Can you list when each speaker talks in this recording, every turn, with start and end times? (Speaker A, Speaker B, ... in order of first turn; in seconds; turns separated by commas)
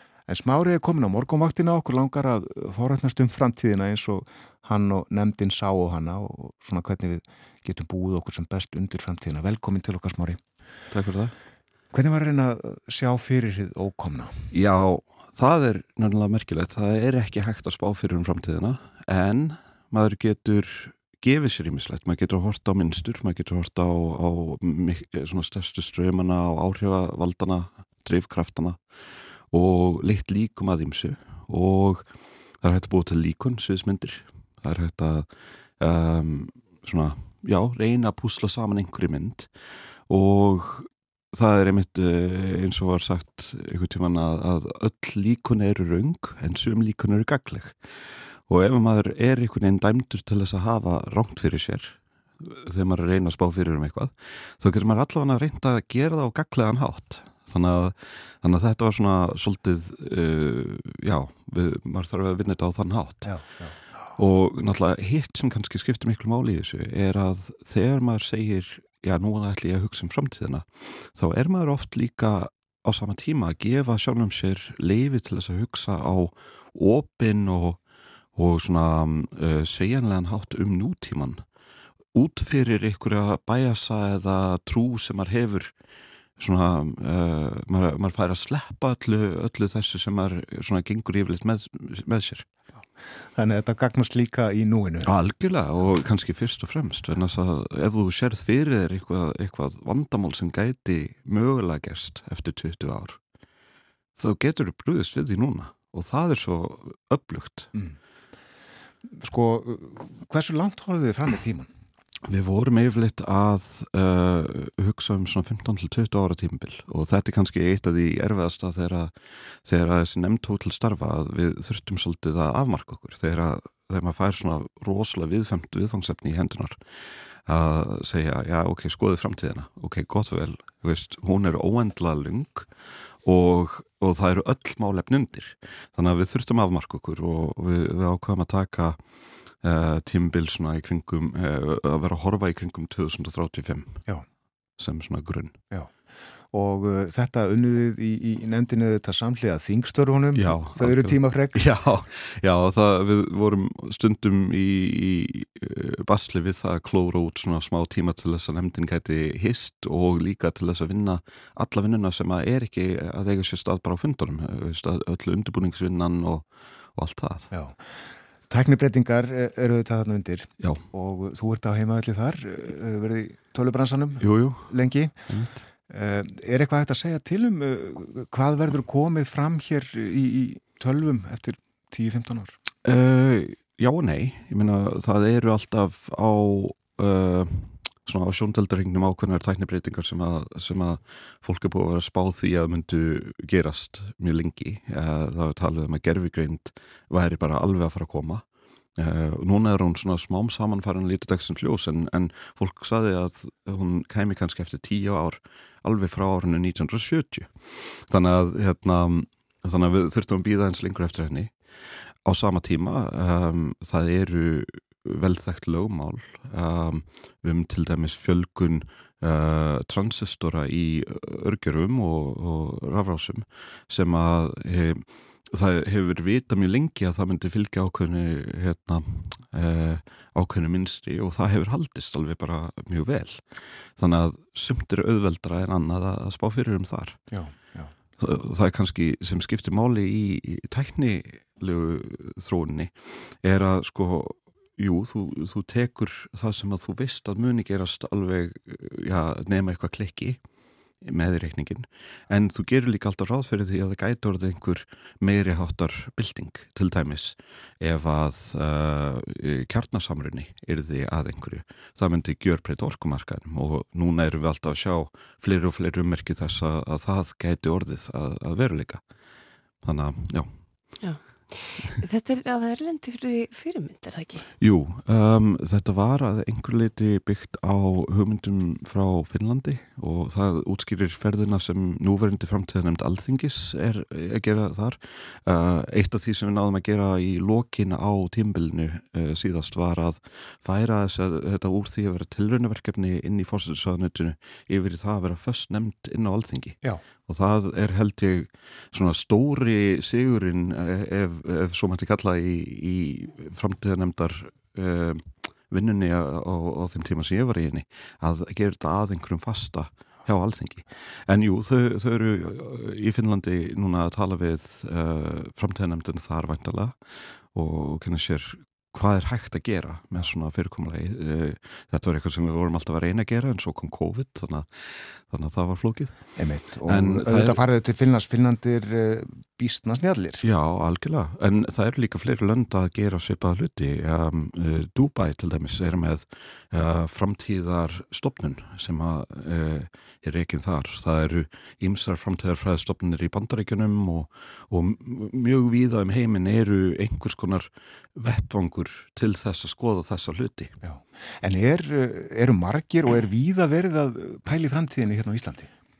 Speaker A: 0.3-10.4, Speaker B: 10.9-11.3, Speaker A: 11.9-14.4, Speaker B: 14.5-28.8, Speaker B: 29.5-32.1, Speaker B: 32.6-39.5, Speaker B: 40.1-47.8, Speaker B: 48.5-63.4, Speaker A: 63.2-63.8, Speaker B: 64.2-77.8, Speaker B: 78.3-81.4, Speaker B: 82.1-85.7, Speaker B: 86.4-92.5, Speaker A: 93.4-95.1, Speaker B: 95.0-103.2, Speaker B: 104.2-107.7, Speaker A: 109.1-111.7, Speaker B: 112.3-126.8, Speaker B: 127.5-132.7, Speaker B: 133.2-139.0, Speaker B: 139.6-144.0, Speaker B: 144.8-145.6, Speaker A: 146.5-151.6, Speaker B: 150.3-167.5, Speaker A: 167.5-167.8, Speaker A: 168.5-175.2, Speaker B: 170.6-170.8, Speaker B: 174.2-174.7, Speaker B: 175.3-175.6, Speaker A: 175.9-182.6, Speaker B: 182.8-198.5, Speaker B: 199.0-211.5, Speaker B: 212.2-233.4, Speaker B: 234.0-237.2, Speaker A: 237.3-237.9, Speaker B: 238.2-250.4, Speaker B: 251.0-269.0, Speaker B: 269.8-270.9, Speaker C: 271.0-274.5, Speaker B: 274.6-317.0, Speaker B: 317.5-326.3, Speaker A: 326.4-330.4, Speaker B: 326.8-327.6, Speaker B: 330.4-350.8, Speaker A: 350.8-355.7